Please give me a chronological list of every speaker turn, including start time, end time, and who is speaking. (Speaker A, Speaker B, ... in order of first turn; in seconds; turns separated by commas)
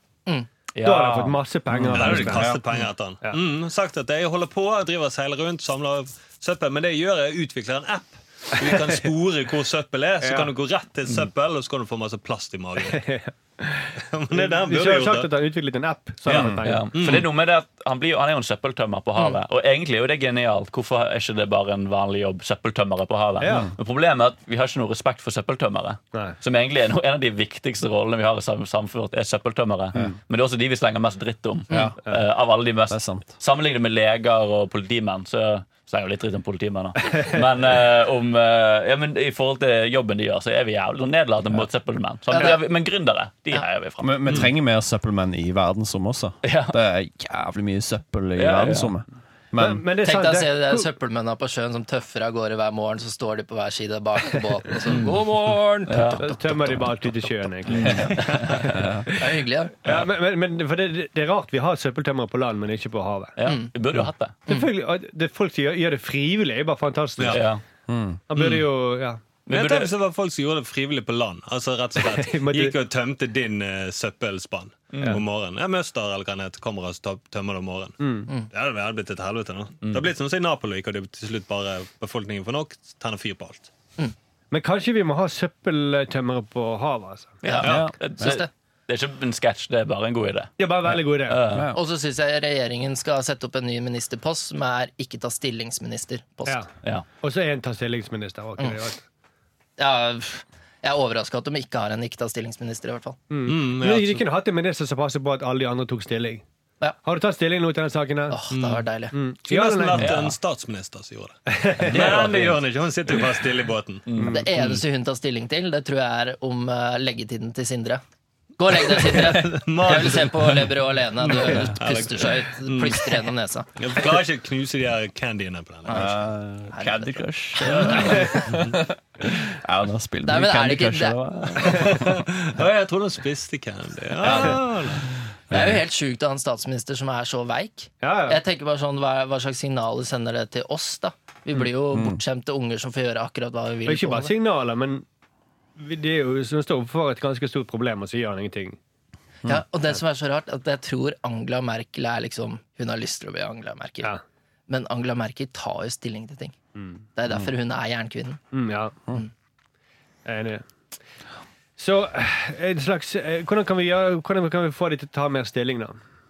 Speaker A: 0.7-1.4, Speaker B: 0.8-2.5, Speaker C: 1.7-2.6, Speaker D: 1.9-13.0, Speaker B: 8.6-8.9, Speaker B: 10.2-10.5, Speaker B: 12.8-17.2, Speaker D: 14.0-15.3, Speaker A: 16.3-44.5, Speaker D: 16.9-17.3, Speaker B: 23.4-23.7, Speaker C: 31.7-31.9, Speaker C: 32.9-33.3, Speaker E: 42.3-42.6, Speaker C: 44.0-49.8, Speaker A: 46.4-46.8, Speaker A: 48.4-48.9, Speaker B: 49.6-50.9, Speaker E: 50.0-56.2, Speaker A: 54.9-55.1, Speaker A: 55.9-56.3, Speaker B: 56.2-59.3, Speaker A: 57.7-58.8, Speaker C: 57.8-59.1, Speaker E: 59.2-59.7, Speaker B: 59.8-63.3, Speaker A: 63.4-64.4, Speaker B: 64.5-67.4, Speaker D: 67.2-67.4, Speaker A: 67.3-67.6, Speaker C: 67.9-68.2, Speaker B: 68.3-69.2, Speaker A: 69.5-69.9, Speaker D: 69.5-78.0, Speaker B: 72.1-72.8, Speaker A: 74.9-75.2, Speaker B: 78.0-78.3, Speaker D: 78.5-83.7, Speaker A: 79.8-80.1, Speaker B: 84.5-87.4, Speaker A: 87.4-90.5, Speaker E: 87.4-88.5, Speaker C: 87.6-88.3, Speaker B: 90.6-91.4, Speaker A: 91.2-91.7, Speaker C: 91.5-91.8, Speaker E: 91.7-96.6, Speaker B: 97.2-99.0, Speaker E: 99.8-103.2, Speaker B: 103.3-106.4, Speaker D: 103.4-104.2, Speaker B: 107.0-108.4, Speaker E: 108.3-109.1, Speaker D: 108.5-108.8, Speaker B: 109.1-110.2, Speaker D: 109.5-114.0, Speaker A: 110.0-110.3, Speaker B: 111.5-112.2, Speaker A: 111.8-112.6, Speaker A: 114.1-114.4, Speaker B: 114.2-114.5, Speaker E: 114.3-118.0, Speaker E: 118.6-123.7, Speaker D: 119.0-120.6, Speaker D: 121.2-126.1, Speaker E: 125.8-126.1, Speaker C: 125.9-132.1, Speaker E: 126.7-128.5, Speaker E: 130.2-131.2, Speaker D: 131.6-135.1, Speaker C: 134.2-134.7, Speaker C: 135.5-135.8, Speaker E: 135.5-144.3, Speaker B: 138.0-138.4, Speaker C: 141.9-142.2, Speaker B: 143.8-145.0, Speaker B: 145.8-148.8, Speaker E: 149.4-154.1, Speaker E: 154.7-156.5, Speaker E: 157.2-158.4, Speaker B: 158.5-159.0, Speaker B: 160.2-160.6, Speaker B: 161.8-166.0